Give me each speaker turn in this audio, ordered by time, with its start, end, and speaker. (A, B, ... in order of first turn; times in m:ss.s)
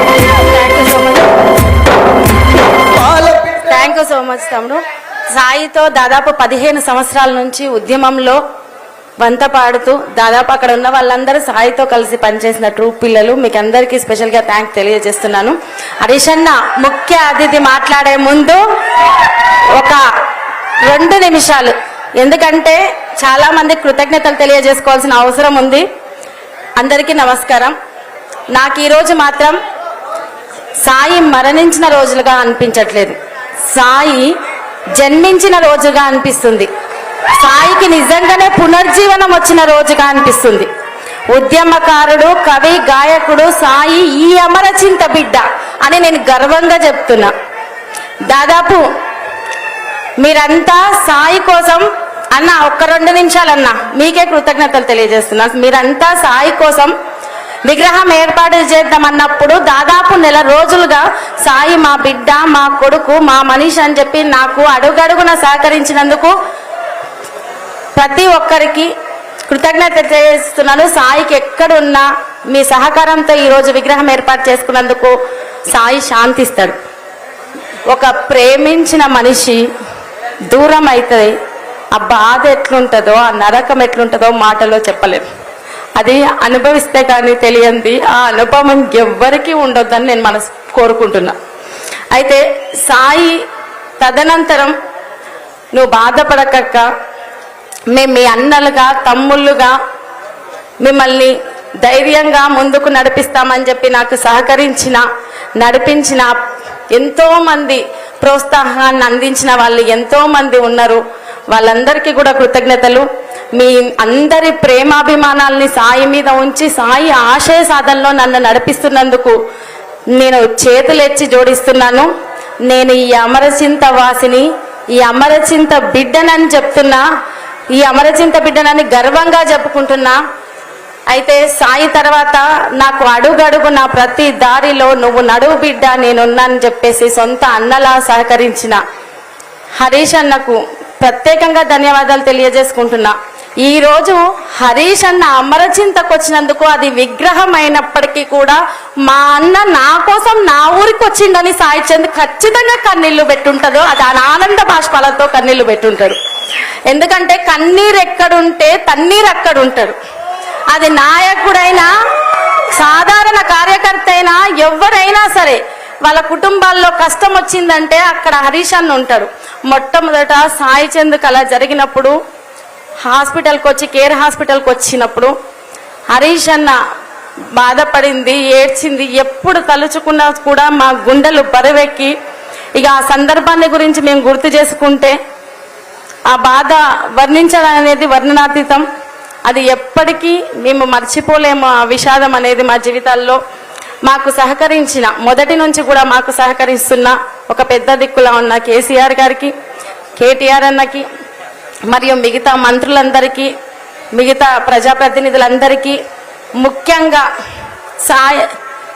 0:00.3-0:01.3 A
0:03.4-0:04.8 A
0:05.3-0:08.4 A
0:09.2-0:18.6 A
0:19.7-0:20.0 A
0:20.8-0:25.8 A
0:26.8-0:27.7 A
0:28.5-0:29.6 A
0:30.8-0:33.2 A
0:33.7-0:34.3 A
0:35.0-0:36.7 A
0:37.4-0:40.7 A
0:41.3-0:47.3 A
0:48.3-0:48.8 A
0:50.2-0:56.9 A
0:57.6-1:06.3 A
1:08.0-1:08.9 A
1:09.5-1:15.1 A
1:15.7-1:16.8 A
1:17.9-1:19.6 A
1:20.5-1:21.3 A
1:21.9-1:25.2 A
1:26.0-1:31.4 A
1:32.1-1:33.4 A
1:34.0-1:34.7 A
1:35.7-1:36.9 A
1:37.9-1:39.8 A
1:40.8-1:45.0 A
1:45.6-1:46.4 A
1:46.9-1:59.4 A
2:00.2-2:02.1 A
2:02.7-2:04.5 A
2:05.0-2:07.0 A
2:07.8-2:10.2 A
2:11.1-2:18.8 A
2:19.8-2:36.2 A
2:36.9-2:40.0 A
2:40.7-2:41.9 A
2:42.7-2:52.2 A
2:53.0-2:55.3 A
2:56.1-2:56.8 A
2:57.6-3:02.1 A
3:02.8-3:05.1 A
3:06.3-3:08.8 A
3:09.4-3:13.4 A
3:14.0-3:19.5 A
3:20.2-3:21.0 A
3:21.9-3:23.5 A
3:24.1-3:26.0 A
3:26.6-3:27.2 A
3:28.0-3:28.5 A